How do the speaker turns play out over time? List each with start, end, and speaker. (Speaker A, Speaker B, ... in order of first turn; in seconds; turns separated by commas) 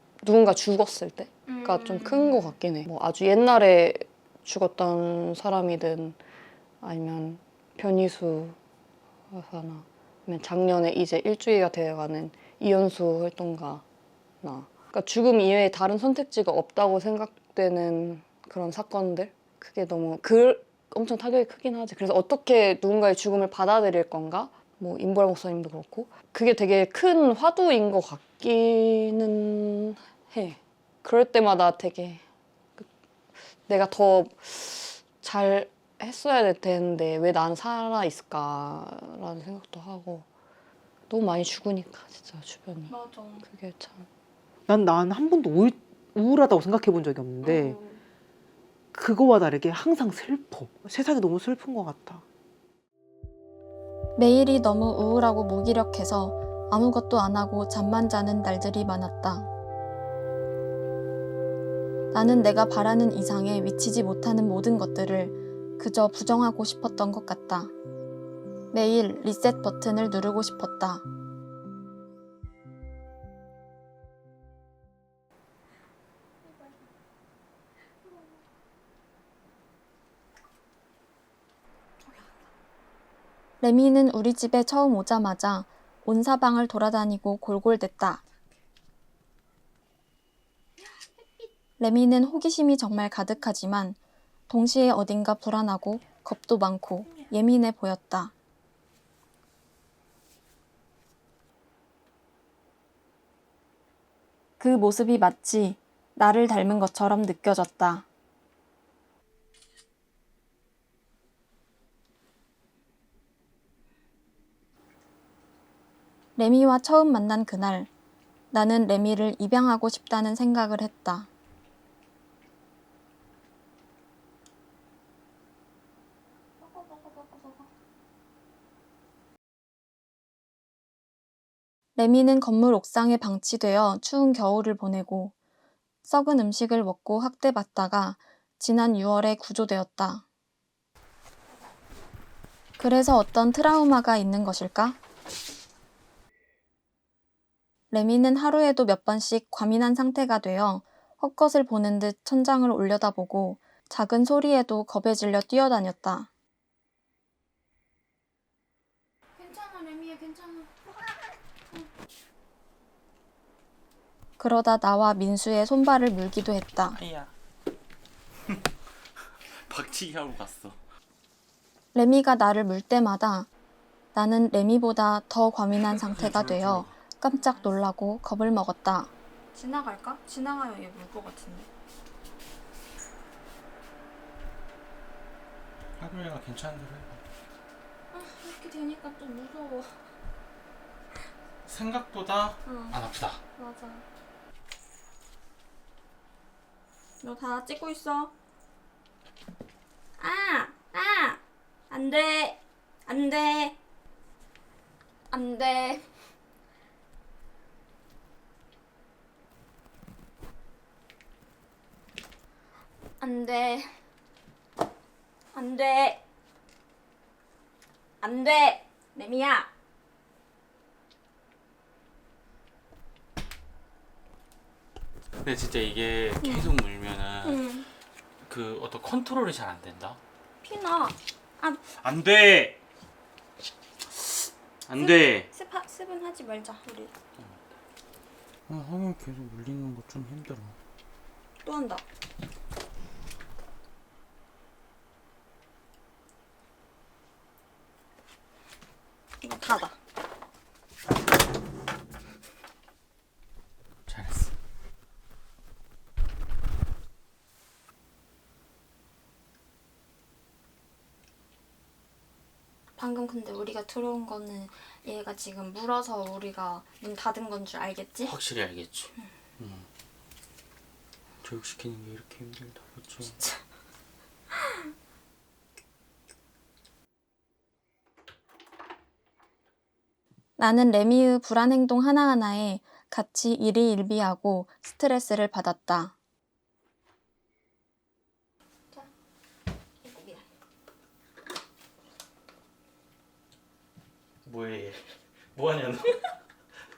Speaker A: 0.2-6.2, Speaker B: 1.5-2.5, Speaker A: 6.8-8.6, Speaker A: 9.3-13.8, Speaker A: 14.4-32.2, Speaker A: 33.7-40.3, Speaker A: 41.1-44.1, Speaker B: 42.9-43.5, Speaker C: 44.7-47.8, Speaker B: 47.4-48.0, Speaker C: 48.9-52.2, Speaker D: 54.2-59.5, Speaker D: 62.1-67.7, Speaker D: 68.7-71.0, Speaker B: 76.4-76.9, Speaker B: 78.0-78.4, Speaker B: 82.0-82.3, Speaker D: 83.6-88.2, Speaker B: 90.8-91.5, Speaker D: 91.8-94.0, Speaker D: 94.5-98.3, Speaker D: 104.6-108.0, Speaker D: 116.4-117.9, Speaker D: 118.5-121.3, Speaker B: 126.6-127.7, Speaker D: 132.0-135.3, Speaker D: 136.1-140.2, Speaker D: 142.8-145.0, Speaker D: 147.9-156.3, Speaker B: 159.4-161.9, Speaker D: 164.4-167.0, Speaker E: 166.9-167.3, Speaker E: 169.6-170.8, Speaker D: 171.9-173.5, Speaker D: 174.1-179.1, Speaker E: 175.9-176.9, Speaker B: 177.2-177.8, Speaker B: 179.5-181.7, Speaker E: 186.0-187.2, Speaker B: 188.1-190.0, Speaker E: 191.7-193.4, Speaker B: 192.7-193.0, Speaker B: 193.6-194.1, Speaker B: 197.2-198.3, Speaker B: 200.2-203.8, Speaker B: 205.3-206.1, Speaker B: 213.2-213.9, Speaker B: 215.5-216.2, Speaker B: 218.2-219.7, Speaker E: 225.4-227.6, Speaker B: 226.4-226.8, Speaker B: 227.4-227.9, Speaker E: 228.4-230.2, Speaker B: 230.6-231.8, Speaker E: 231.9-232.8, Speaker E: 234.2-235.5, Speaker B: 235.0-237.1, Speaker E: 238.7-240.8, Speaker B: 241.6-242.0, Speaker B: 249.4-250.0, Speaker E: 254.1-254.5, Speaker B: 263.0-268.3, Speaker E: 268.2-269.9, Speaker E: 271.4-273.4, Speaker D: 280.6-286.1, Speaker B: 290.0-290.4, Speaker E: 294.4-296.2